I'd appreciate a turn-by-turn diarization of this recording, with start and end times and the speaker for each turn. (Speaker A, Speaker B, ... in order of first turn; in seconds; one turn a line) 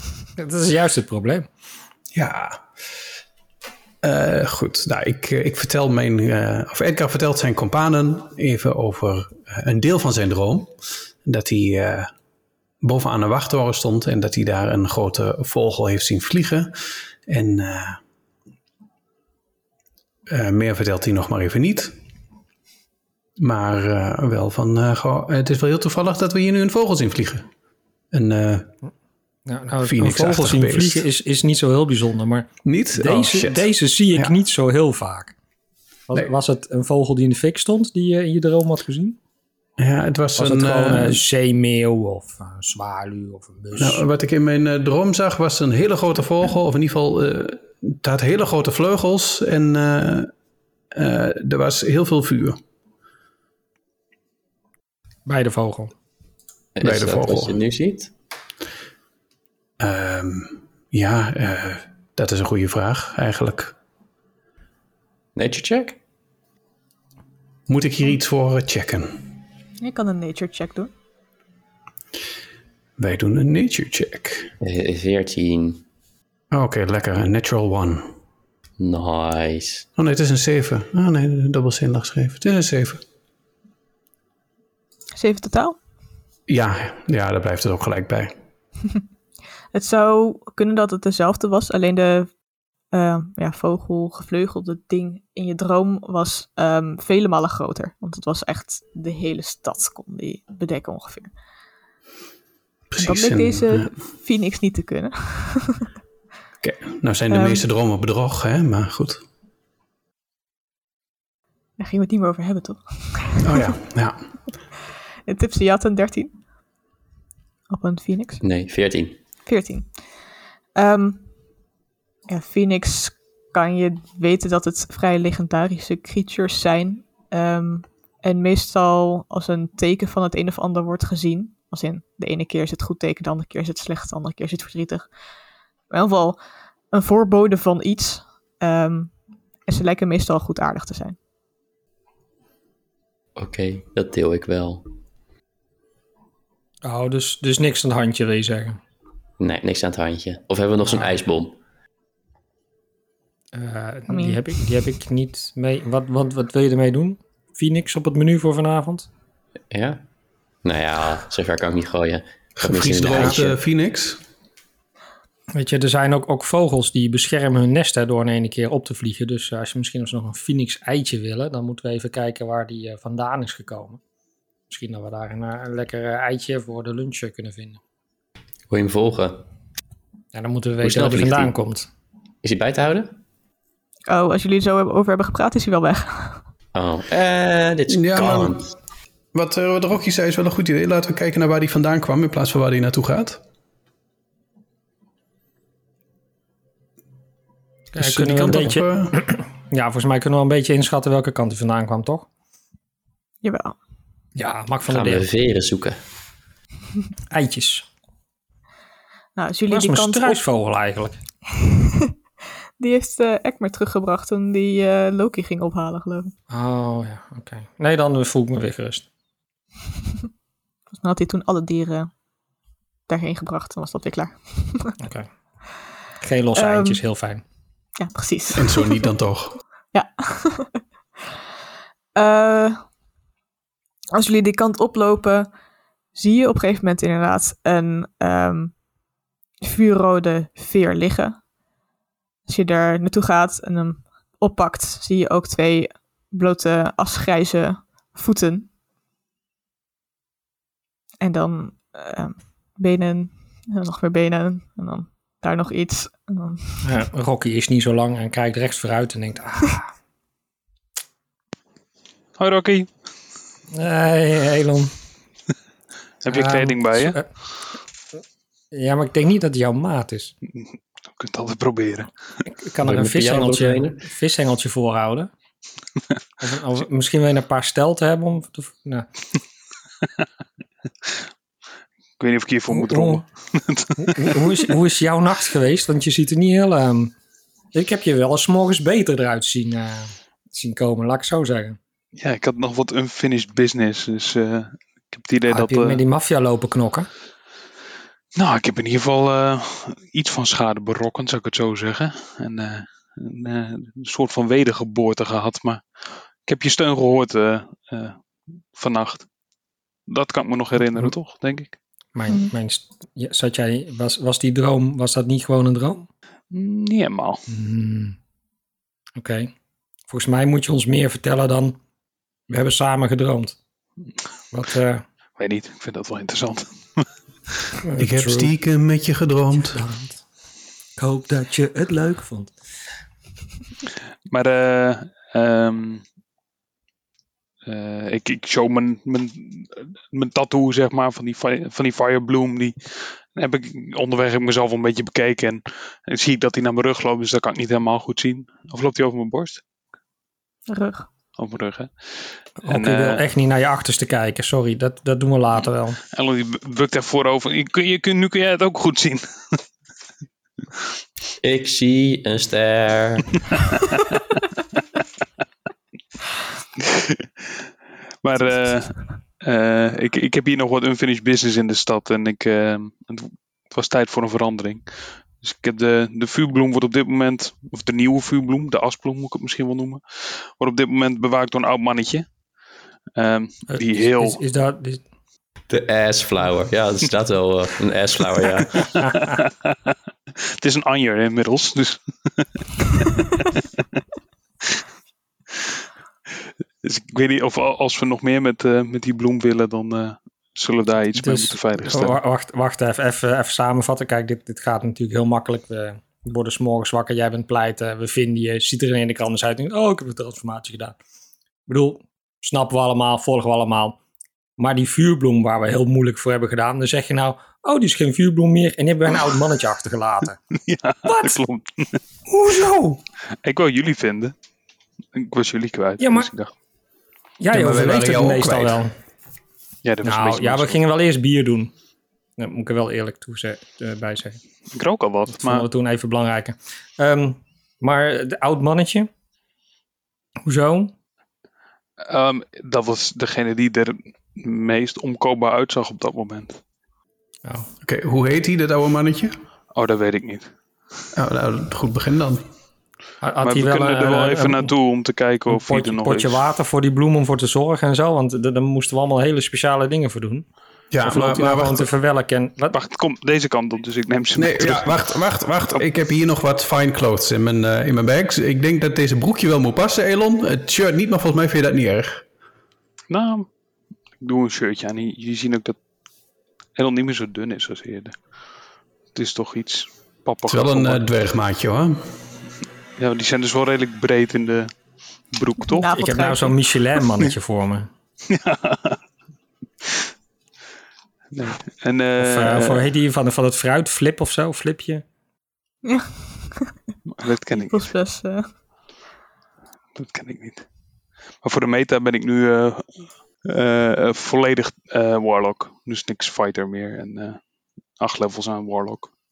Speaker A: 0.4-1.5
Speaker B: 2.1-2.6
Speaker B: 4.0-12.1
Speaker B: 12.8-16.7
Speaker B: 17.2-18.0
Speaker B: 20.3-21.9
Speaker B: 23.4-27.5
Speaker B: 28.1-28.7
Speaker A: 29.5-35.3
Speaker B: 29.8-31.0
Speaker B: 32.6-34.3
Speaker A: 36.1-39.2
Speaker B: 39.8-41.2
Speaker A: 40.4-44.0
Speaker B: 43.8-50.3
Speaker B: 50.9-52.6
Speaker A: 55.2-55.9
Speaker C: 56.8-58.1
Speaker B: 56.8-57.6
Speaker B: 59.8-63.7
Speaker C: 65.3-66.0
Speaker B: 67.7-69.2
Speaker D: 69.8-70.9
Speaker B: 73.0-74.5
Speaker C: 74.6-75.8
Speaker B: 76.5-78.2
Speaker C: 78.8-79.8
Speaker B: 80.0-83.0
Speaker D: 85.1-85.8
Speaker B: 86.5-88.3
Speaker D: 89.7-92.3
Speaker D: 92.9-101.3
Speaker B: 102.9-103.9
Speaker D: 103.0-105.8
Speaker B: 106.6-109.2
Speaker D: 107.3-107.6
Speaker D: 111.8-113.5
Speaker B: 113.4-114.4
Speaker D: 115.3-116.3
Speaker D: 117.7-118.4
Speaker C: 118.4-119.2
Speaker D: 119.5-120.1
Speaker D: 120.7-121.3
Speaker D: 122.3-135.1
Speaker D: 135.9-136.4
Speaker D: 136.9-139.1
Speaker D: 139.7-141.2
Speaker C: 143.3-144.9
Speaker A: 146.8-148.8
Speaker C: 149.4-151.6
Speaker A: 150.8-151.2
Speaker A: 153.5-159.1
Speaker D: 154.1-154.5
Speaker C: 159.7-160.0
Speaker C: 160.6-163.6
Speaker B: 162.6-164.2
Speaker A: 163.1-163.4
Speaker A: 165.5-174.0
Speaker A: 174.7-177.8
Speaker C: 178.7-179.4
Speaker A: 180.3-181.9
Speaker C: 180.8-181.5
Speaker C: 182.4-183.2
Speaker D: 184.1-186.4
Speaker C: 186.7-188.7
Speaker B: 187.9-188.6
Speaker B: 189.3-193.4
Speaker A: 197.9-202.3
Speaker B: 198.0-199.1
Speaker D: 203.4-203.8
Speaker A: 204.3-205.3
Speaker C: 204.9-206.0
Speaker A: 207.3-207.9
Speaker D: 209.3-210.4
Speaker A: 209.7-211.2
Speaker D: 212.8-216.3
Speaker A: 216.5-219.1
Speaker D: 220.9-222.1
Speaker D: 223.1-225.0
Speaker A: 225.0-225.3
Speaker A: 226.2-227.4
Speaker D: 226.5-227.0
Speaker D: 228.0-229.1
Speaker B: 228.6-229.6
Speaker D: 229.9-230.8
Speaker D: 232.1-232.8
Speaker D: 234.1-235.5
Speaker D: 236.1-238.8
Speaker D: 239.6-241.4
Speaker D: 242.4-248.7
Speaker D: 251.2-256.8
Speaker A: 256.8-259.9
Speaker E: 262.4-262.9
Speaker A: 263.7-264.9
Speaker E: 266.2-267.2
Speaker A: 266.3-267.6
Speaker A: 268.7-270.3
Speaker E: 270.5-272.1
Speaker A: 272.6-275.3
Speaker C: 272.8-274.1
Speaker A: 276.4-279.1
Speaker E: 282.2-284.6
Speaker A: 282.7-283.2
Speaker A: 284.0-287.1
Speaker A: 287.7-291.8
Speaker E: 292.2-296.0
Speaker A: 295.5-297.1
Speaker E: 298.4-308.2
Speaker E: 308.7-309.3
Speaker E: 310.1-311.8
Speaker A: 312.1-316.1
Speaker D: 312.3-312.5
Speaker E: 316.5-317.4
Speaker A: 317.5-318.1
Speaker A: 319.1-319.5
Speaker A: 320.1-321.8
Speaker A: 322.5-323.6
Speaker A: 324.5-325.0
Speaker E: 325.4-327.1
Speaker A: 327.8-328.5
Speaker B: 328.0-329.8
Speaker A: 329.6-330.2
Speaker A: 331.0-332.5
Speaker E: 334.2-336.0
Speaker E: 337.6-349.6
Speaker D: 350.7-351.1
Speaker E: 351.4-353.2
Speaker A: 352.6-356.0
Speaker E: 356.1-359.6
Speaker C: 361.4-363.3
Speaker E: 366.8-367.6
Speaker E: 368.2-382.3
Speaker D: 368.4-369.0
Speaker E: 383.1-384.4
Speaker A: 383.7-385.0
Speaker C: 385.7-389.0
Speaker E: 389.1-389.9
Speaker E: 390.6-393.6
Speaker E: 396.8-402.2
Speaker A: 401.2-411.0
Speaker A: 411.6-414.0
Speaker A: 414.6-420.4
Speaker E: 420.6-422.0
Speaker A: 421.0-421.4
Speaker A: 422.3-423.0
Speaker E: 423.4-424.3
Speaker E: 425.1-426.5
Speaker A: 426.0-426.3
Speaker A: 427.4-429.0
Speaker B: 427.5-428.8
Speaker E: 429.8-430.8
Speaker A: 430.0-431.7
Speaker A: 432.4-434.4
Speaker E: 434.7-435.6
Speaker A: 435.3-439.1
Speaker A: 440.4-440.9
Speaker E: 442.0-446.6
Speaker A: 447.4-447.7
Speaker B: 447.8-449.4
Speaker E: 449.7-450.5
Speaker B: 451.1-452.4
Speaker A: 453.2-454.7
Speaker E: 453.4-456.4
Speaker A: 455.5-460.4
Speaker B: 460.9-461.9
Speaker A: 461.0-462.8
Speaker E: 462.7-465.8
Speaker B: 464.4-472.2
Speaker E: 473.1-473.5
Speaker E: 474.2-475.8
Speaker E: 476.8-478.2
Speaker E: 479.1-481.1
Speaker B: 480.4-482.1
Speaker E: 483.0-484.7
Speaker E: 485.3-485.9
Speaker D: 485.7-486.6
Speaker A: 485.9-487.9
Speaker E: 488.3-489.0
Speaker E: 491.3-492.8
Speaker A: 492.2-495.0
Speaker D: 495.8-496.7
Speaker E: 497.1-497.9
Speaker D: 497.5-498.5
Speaker E: 499.9-500.6
Speaker E: 501.4-507.4
Speaker E: 508.0-509.1